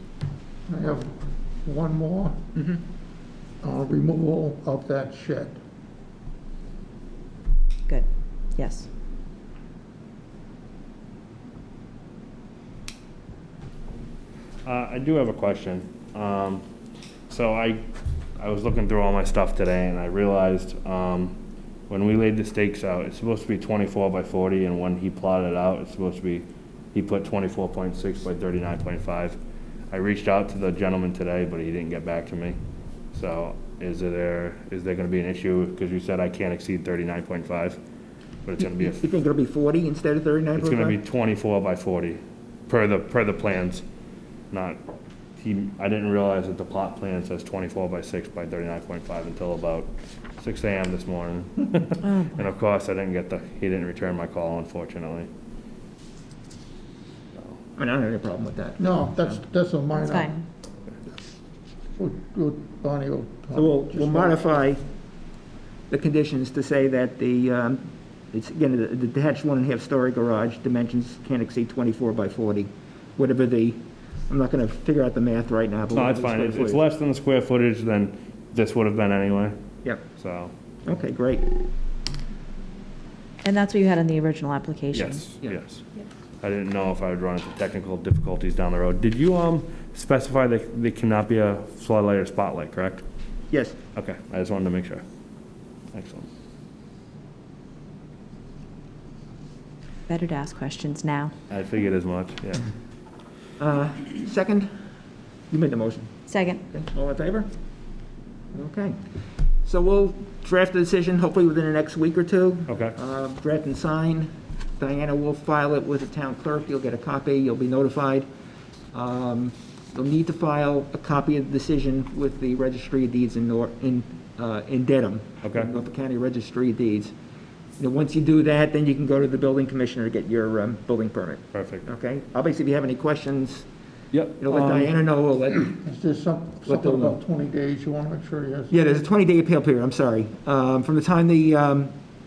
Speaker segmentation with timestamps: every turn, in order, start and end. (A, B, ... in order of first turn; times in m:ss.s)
0:00.7-0:02.4 A
0:03.6-0:05.6 A
0:07.9-0:08.9 B
0:14.6-0:16.6 C
0:17.3-0:17.8 C
0:18.4-0:21.4 C
0:21.9-0:29.4 C
0:29.9-0:32.6 C
0:33.1-0:37.8 C
0:38.4-0:39.0 C
0:38.6-0:41.0 D
0:40.6-0:43.8 C
0:44.5-0:44.8 C
0:45.4-0:55.3 C
0:52.0-0:52.4 B
0:57.8-0:59.0 D
0:58.8-1:00.3 A
0:59.9-1:00.4 B
1:02.0-1:04.5 A
1:03.6-1:04.8 D
1:05.9-1:16.8 D
1:15.9-1:19.6 C
1:20.2-1:20.5 C
1:20.9-1:21.7 D
1:23.4-1:25.2 B
1:24.9-1:25.8 C
1:26.4-1:33.0 C
1:33.5-1:33.8 D
1:34.0-1:35.0 C
1:35.9-1:36.3 C
1:40.1-1:41.3 B
1:41.5-1:42.7 C
1:43.6-1:44.7 D
1:45.5-1:46.1 D
1:46.3-1:46.6 B
1:46.7-1:47.5 D
1:48.5-1:49.0 D
1:49.6-1:58.3 D
1:52.7-1:53.0 C
1:58.9-2:07.1 D
2:05.4-2:05.7 C
2:07.8-2:13.7 D
2:11.5-2:11.9 C
2:14.1-2:14.9 C
2:14.4-2:15.8 D
2:15.8-2:18.7 A
2:16.7-2:17.2 D
2:18.7-2:21.9 D